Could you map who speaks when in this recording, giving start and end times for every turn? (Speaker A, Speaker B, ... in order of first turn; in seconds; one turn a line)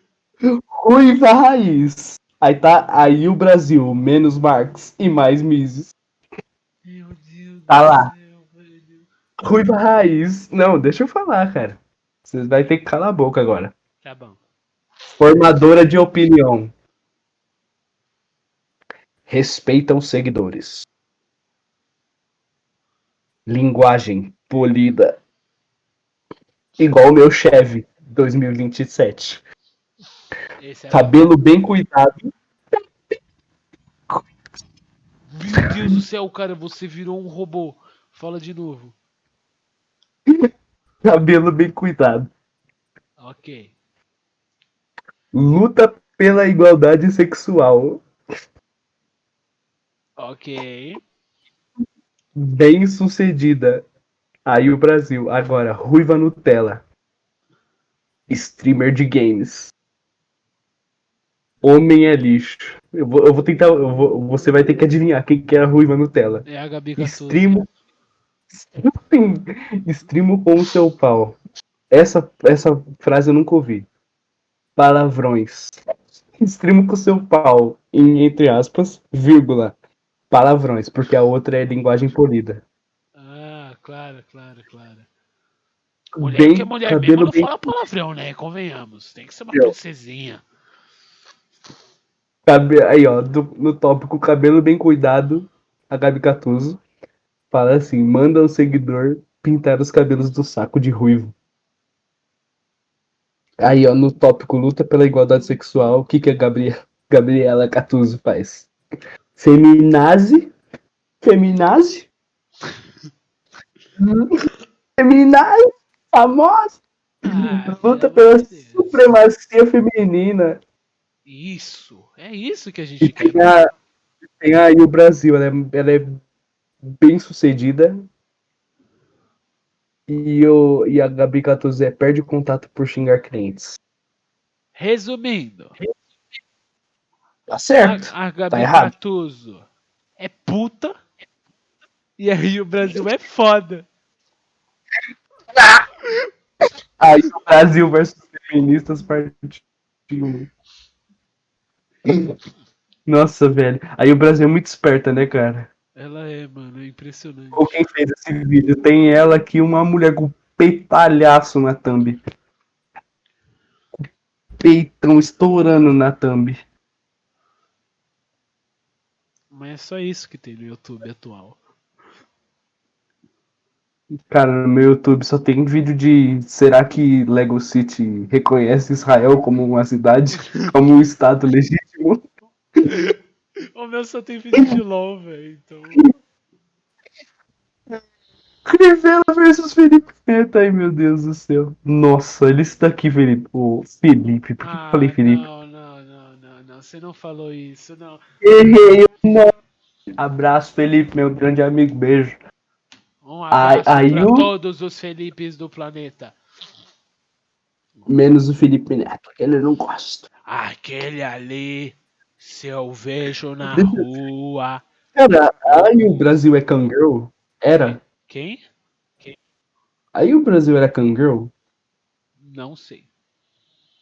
Speaker A: 0.5-5.9
Speaker B: 6.8-9.1
Speaker A: 7.7-8.1
Speaker A: 9.4-13.7
Speaker B: 14.0-14.4
Speaker A: 15.1-16.7
Speaker A: 19.3-20.9
Speaker A: 23.5-25.2
Speaker A: 26.8-29.4
Speaker B: 30.6-31.3
Speaker A: 30.9-32.3
Speaker B: 35.3-39.0
Speaker A: 41.0-42.3
Speaker B: 43.2-43.7
Speaker A: 45.3-48.0
Speaker B: 50.2-51.0
Speaker A: 52.4-53.8
Speaker A: 54.5-56.8
Speaker A: 58.3-59.7
Speaker A: 61.6-66.5
Speaker B: 66.5-67.5
Speaker A: 67.0-67.7
Speaker A: 68.5-71.4
Speaker A: 71.9-73.9
Speaker A: 74.8-75.8
Speaker A: 76.4-79.8
Speaker A: 80.3-82.6
Speaker B: 83.2-85.1
Speaker A: 86.2-87.5
Speaker B: 86.2-90.4
Speaker A: 92.5-96.8
Speaker A: 97.5-101.3
Speaker A: 103.6-108.7
Speaker A: 109.4-110.5
Speaker A: 111.2-112.1
Speaker A: 114.0-114.3
Speaker A: 115.0-120.6
Speaker B: 117.2-119.1
Speaker B: 121.3-123.5
Speaker A: 123.0-123.7
Speaker A: 124.4-126.2
Speaker A: 127.0-127.9
Speaker A: 130.1-133.8
Speaker B: 134.8-135.8
Speaker A: 137.5-138.9
Speaker B: 137.8-139.7
Speaker B: 140.2-141.0
Speaker B: 142.2-143.9
Speaker A: 145.6-145.8
Speaker A: 147.0-150.5
Speaker A: 152.1-152.3
Speaker A: 153.1-155.7
Speaker B: 156.0-157.8
Speaker A: 157.6-162.2
Speaker A: 164.6-166.6
Speaker B: 169.5-171.6
Speaker A: 174.3-182.2
Speaker B: 182.9-183.1
Speaker B: 183.7-186.1
Speaker A: 188.7-195.4
Speaker B: 194.6-198.2
Speaker A: 198.4-199.5
Speaker A: 200.2-202.4
Speaker B: 203.2-206.4
Speaker A: 203.5-204.5
Speaker A: 208.1-210.2
Speaker B: 210.5-214.8
Speaker A: 213.7-214.1
Speaker A: 215.2-218.0
Speaker B: 215.7-216.2
Speaker B: 218.3-218.6
Speaker A: 220.2-221.5
Speaker B: 222.4-223.1